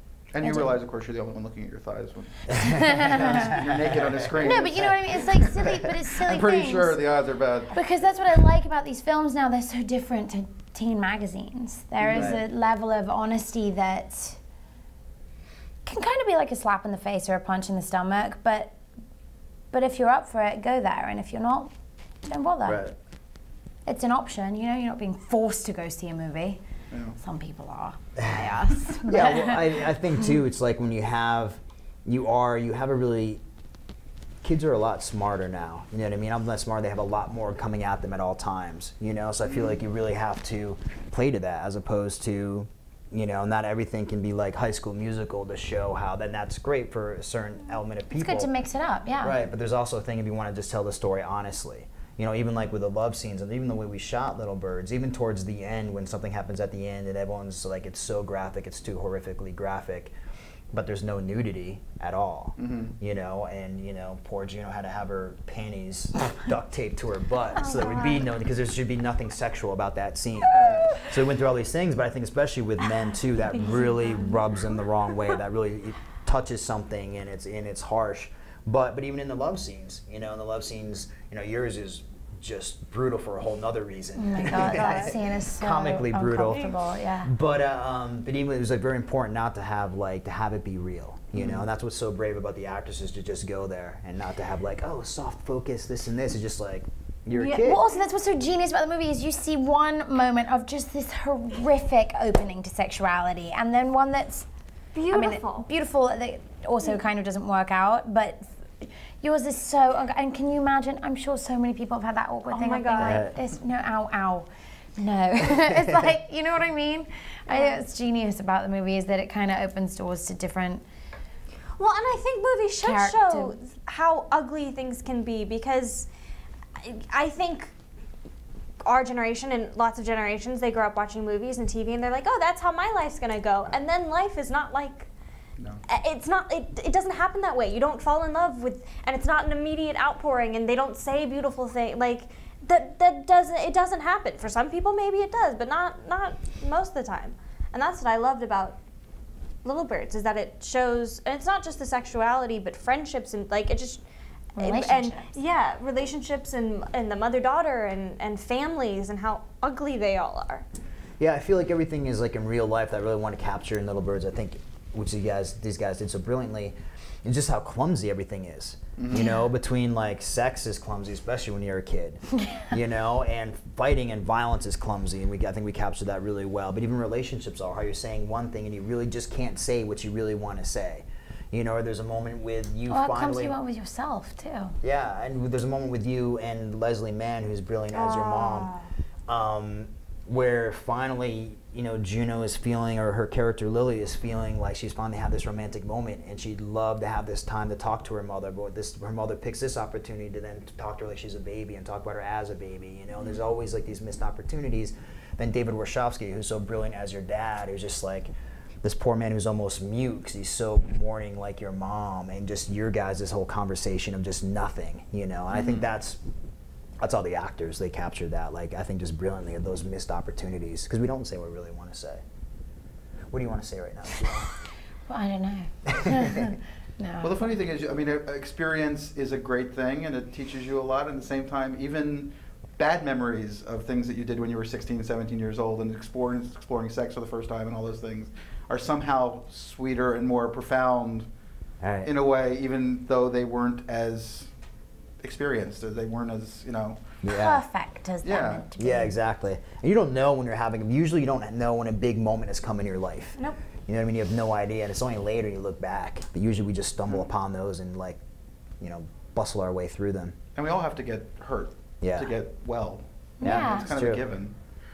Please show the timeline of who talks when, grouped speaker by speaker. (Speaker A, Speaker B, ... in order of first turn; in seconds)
Speaker A: 0.3-7.8, 12.0-12.4, 26.9-27.2, 39.5-39.7, 62.6-62.9, 91.3-91.6, 169.0-169.3, 215.5-215.9, 227.2-241.3, 242.0-244.5, 245.2-247.1, 248.2-248.6, 260.5-264.5
Speaker B: 0.4-0.7, 2.5-3.6, 4.4-7.0, 7.7-14.4, 15.8-18.8, 19.7-21.7, 22.2-22.9, 23.9-26.6, 27.2-29.8, 48.1-49.4, 84.2-87.3, 97.4-104.5, 105.1-120.8, 122.8-123.5, 154.6-155.3, 182.9-184.7, 225.1-227.5, 247.3-249.1, 263.4-263.9
Speaker C: 2.5-4.7, 12.1-12.4, 22.6-22.9, 28.9-33.4, 34.4-48.5, 49.2-60.1, 60.7-97.8, 113.0-113.3, 161.2-183.6, 184.8-188.7, 189.3-208.3, 208.8-216.2, 217.0-222.2, 223.3-224.5, 225.9-226.5, 241.8-242.1, 247.2-247.6, 248.8-258.2, 258.8-260.4, 262.0-262.4, 263.4-264.2
Speaker D: 67.5-68.3, 86.5-86.7, 104.9-105.7, 112.5-113.2, 117.5-117.8, 121.8-126.1, 126.8-127.7, 128.8-135.1, 135.8-148.8, 149.6-154.0, 154.6-160.6, 187.9-188.9